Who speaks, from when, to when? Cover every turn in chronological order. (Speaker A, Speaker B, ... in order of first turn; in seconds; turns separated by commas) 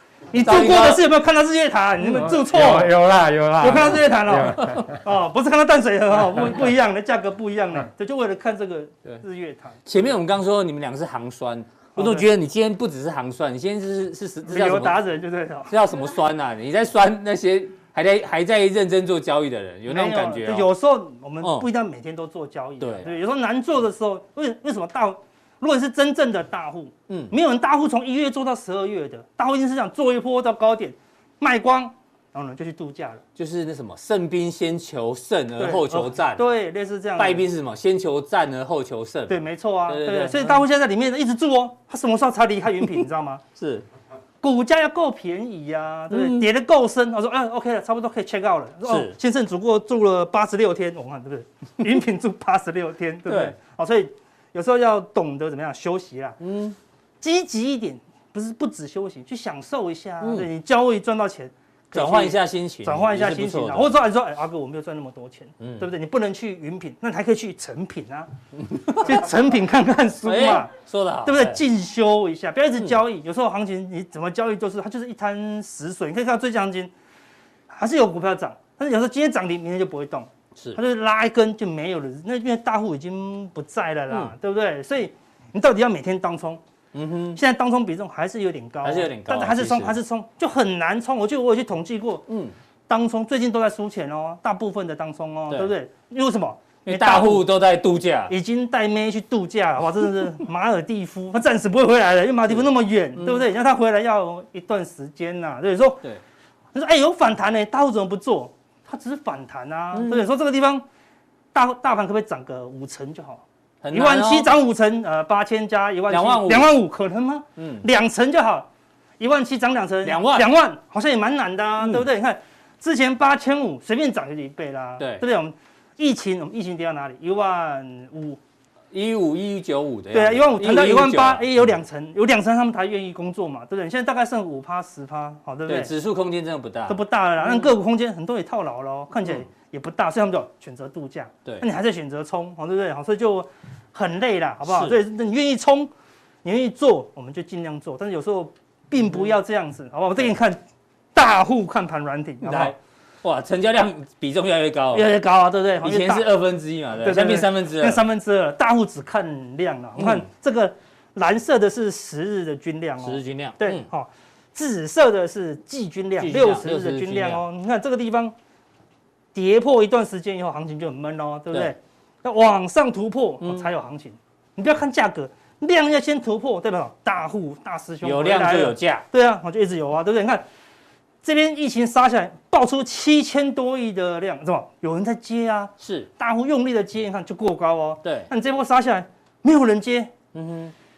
Speaker A: 0.3-2.9, Speaker B: 0.3-1.1, Speaker B: 2.0-2.3, Speaker C: 2.1-4.9, Speaker A: 3.6-9.8, Speaker B: 4.6-4.8, Speaker B: 9.8-15.0, Speaker A: 12.0-12.3, Speaker A: 14.5-15.7, Speaker B: 15.7-20.7, Speaker A: 19.9-33.2, Speaker B: 21.4-21.7, Speaker B: 22.8-23.2, Speaker B: 27.1-27.3, Speaker B: 33.4-36.5, Speaker A: 35.6-37.4, Speaker B: 37.2-40.6, Speaker A: 39.3-43.4, Speaker B: 43.6-43.9, Speaker A: 44.4-56.4, Speaker B: 46.1-46.5, Speaker B: 48.9-49.2, Speaker B: 53.3-53.5, Speaker B: 56.4-56.8, Speaker A: 57.2-68.3, Speaker B: 60.2-60.5, Speaker B: 61.9-64.0, Speaker B: 65.6-65.9, Speaker B: 68.6-69.3, Speaker A: 68.9-70.7, Speaker B: 70.2-71.6, Speaker A: 71.2-76.9, Speaker A: 77.7-86.6, Speaker B: 86.9-87.4, Speaker A: 87.3-92.3, Speaker B: 88.8-90.0, Speaker B: 92.3-92.5, Speaker A: 92.9-97.5, Speaker B: 96.9-98.3, Speaker A: 98.3-106.0, Speaker B: 103.2-103.4, Speaker A: 106.7-110.8, Speaker B: 109.9-110.2, Speaker A: 111.5-118.7, Speaker B: 113.8-114.5, Speaker B: 116.1-116.8, Speaker B: 117.6-117.9, Speaker A: 119.2-128.4, Speaker B: 120.0-120.5, Speaker B: 121.8-122.0, Speaker B: 125.0-125.2, Speaker B: 128.9-131.8, Speaker A: 130.1-135.9, Speaker B: 135.7-137.7, Speaker A: 136.9-145.9, Speaker B: 144.7-145.0, Speaker A: 146.4-150.6, Speaker A: 151.2-152.8, Speaker B: 152.4-155.1, Speaker A: 154.9-156.3, Speaker B: 155.8-158.0, Speaker A: 157.0-168.3, Speaker B: 160.0-160.3, Speaker B: 163.0-163.9, Speaker B: 166.2-167.4, Speaker A: 169.3-180.4, Speaker B: 173.4-173.7, Speaker B: 178.0-179.1, Speaker A: 181.2-190.1, Speaker B: 185.8-186.1, Speaker B: 188.0-188.3, Speaker B: 190.3-190.7